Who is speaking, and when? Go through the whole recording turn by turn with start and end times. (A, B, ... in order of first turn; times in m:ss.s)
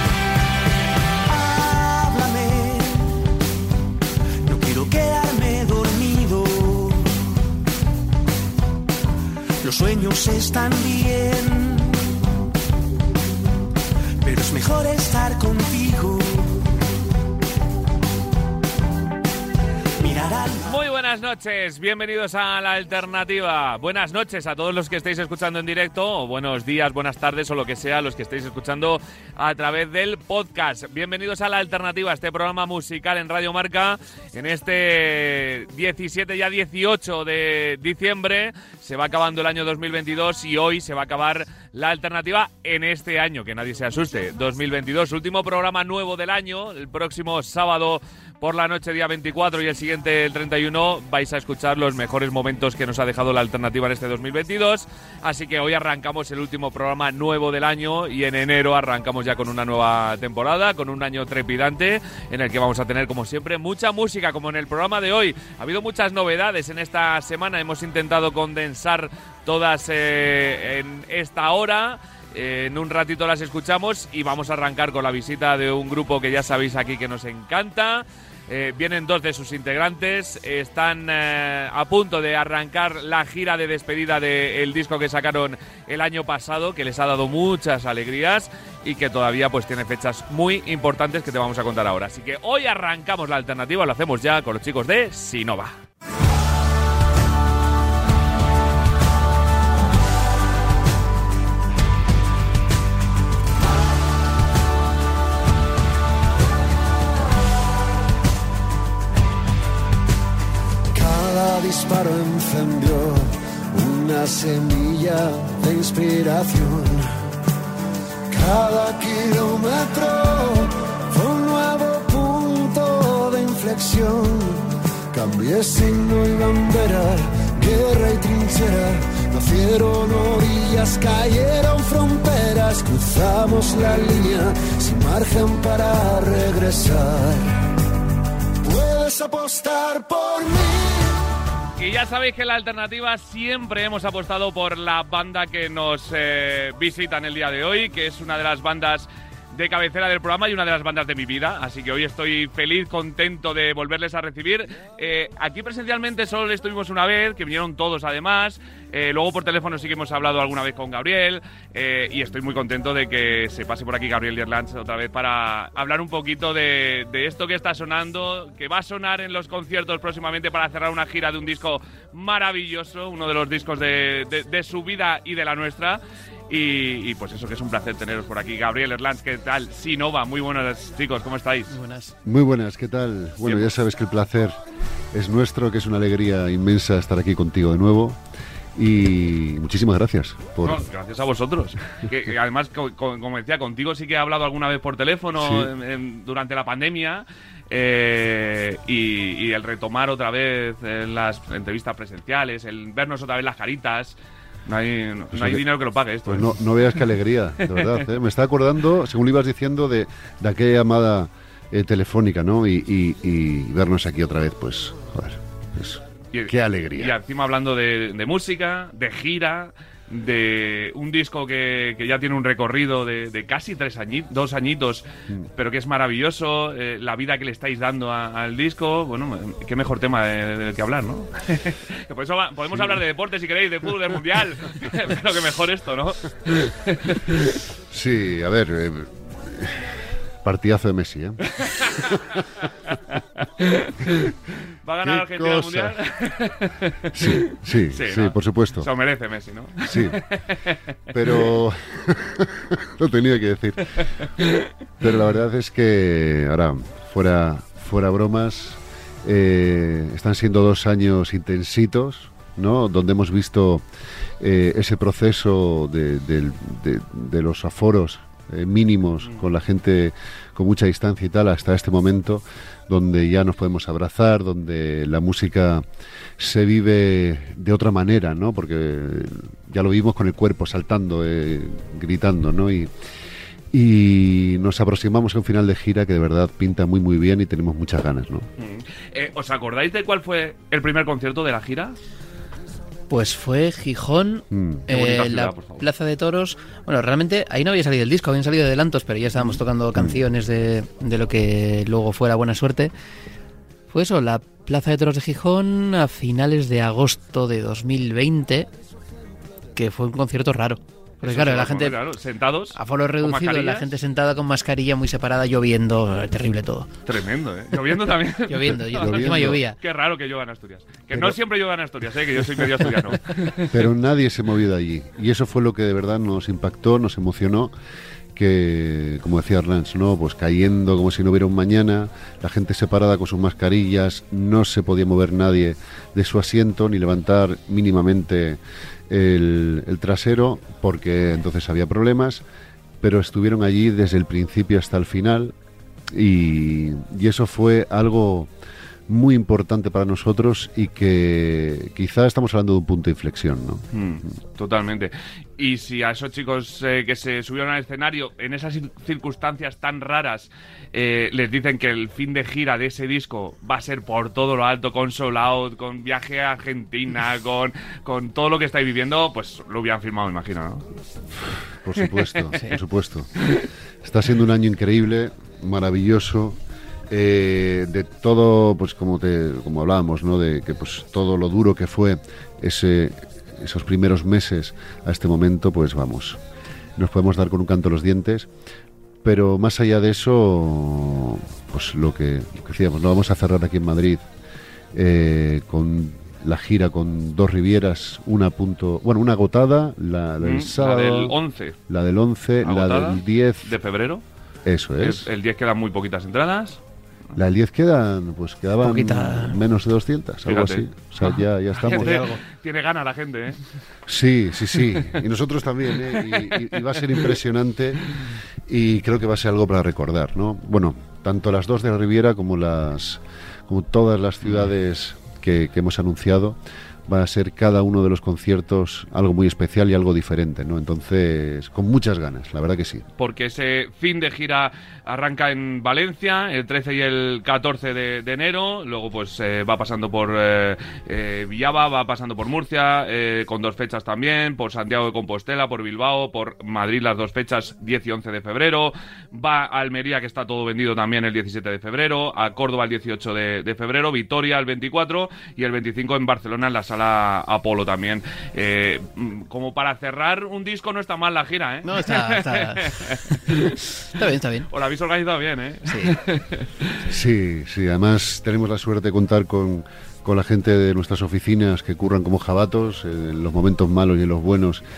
0:01.2-0:03.2 A
0:04.4-0:07.1 A
0:09.6-0:12.0 A
0:14.2-0:16.7 A
0:20.0-0:20.7 A
0:20.6-1:35.8 B
1:50.9-1:57.1 C
1:58.3-2:17.5 C
2:18.6-2:21.2 C
2:21.8-3:01.7 B
3:01.7-3:02.1 D
3:02.2-3:04.6 E
3:05.1-3:08.2 E
3:08.8-3:10.8 E
3:10.6-3:26.5 B
3:15.4-3:15.7 E
3:25.3-3:25.6 E
3:26.2-3:37.1 E
3:36.3-3:57.4 B
3:57.9-4:01.5 E
4:01.6-4:04.3 B
4:04.8-4:10.8 B
4:05.0-4:06.0 E
4:07.1-4:08.9 E
4:09.9-4:10.2 E
4:11.1-4:14.0 E
4:14.0-4:14.7 B
4:15.0-4:23.8 E
4:24.4-4:35.8 E
4:36.4-4:42.9 E
4:43.7-4:48.5 E
4:48.6-4:52.0 B
4:53.1-5:02.9 D
4:54.5-4:54.8 E
4:54.9-4:55.8 B
5:00.0-5:00.2 E
5:03.9-5:08.7 D
5:09.8-5:12.0 D
5:11.2-5:13.9 B
5:12.7-5:16.9 D
5:17.0-5:23.7 B
5:18.5-5:19.8 D
5:18.9-5:19.6 E
5:23.7-5:27.7 E
5:28.3-5:42.4 E
5:43.0-5:45.5 E
5:46.1-5:48.5 E
5:49.1-5:53.8 E
5:53.9-6:10.8 B
6:11.8-6:13.3 E
6:14.0-6:16.6 E
6:17.1-6:26.4 E
6:27.0-6:28.5 E
6:29.2-6:34.2 E
6:34.9-6:41.4 E
6:40.4-6:41.8 B
6:41.9-6:43.7 E
6:42.6-6:44.2 B
6:44.6-6:45.3 E
6:45.0-6:46.8 B
6:47.4-6:52.3 E
6:48.8-6:49.6 D
6:50.4-6:50.9 B
6:51.8-6:52.4 D
6:51.8-6:53.6 B
6:54.1-6:58.1 E
6:58.7-7:13.0 E
7:13.2-7:43.2 B
7:41.8-7:44.7 D
7:44.7-7:47.0 B
7:45.9-7:46.2 D
7:47.0-7:54.8 E